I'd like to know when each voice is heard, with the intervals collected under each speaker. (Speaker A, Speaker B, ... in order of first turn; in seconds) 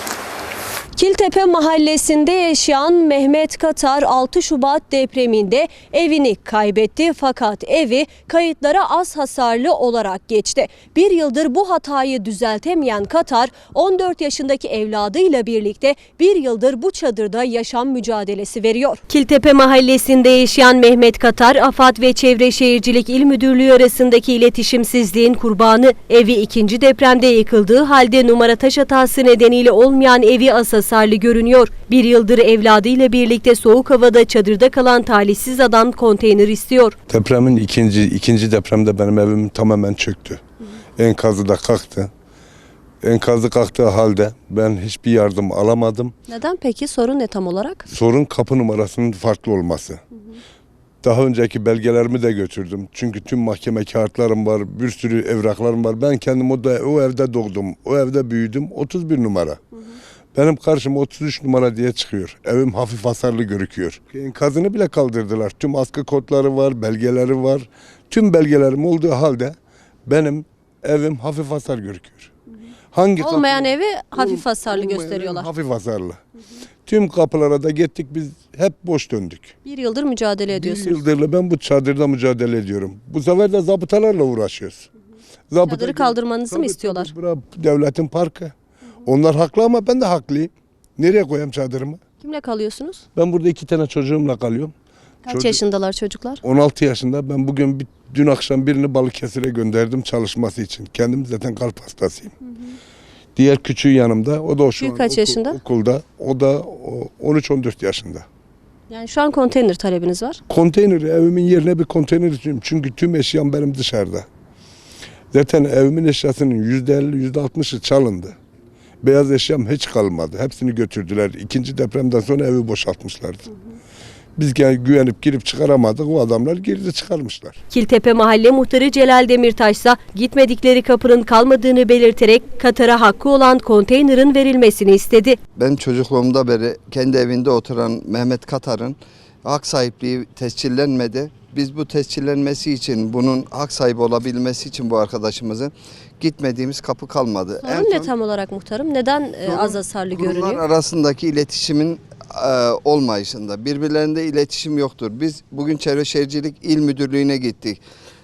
Speaker A: 1.0-37.0, 46.3-47.9, 73.2-75.5, 79.7-81.0, 85.6-87.1, 92.2-93.0, 95.3-96.4, 104.8-105.6, 108.9-110.4, 127.7-135.4, 147.6-150.6
Speaker B: 37.1-40.4, 41.0-42.1, 43.0-46.1, 47.9-50.0, 51.0-59.6, 60.3-72.3, 72.9-76.2, 76.9-79.5, 80.5-84.9, 85.5-88.5, 89.1-92.0, 93.2-94.7, 95.3-95.6, 96.4-102.3, 103.4-108.2, 110.5-114.3, 115.3-118.4, 119.0-123.5, 124.4-127.6
Speaker C: 135.6-148.1, 149.5-157.8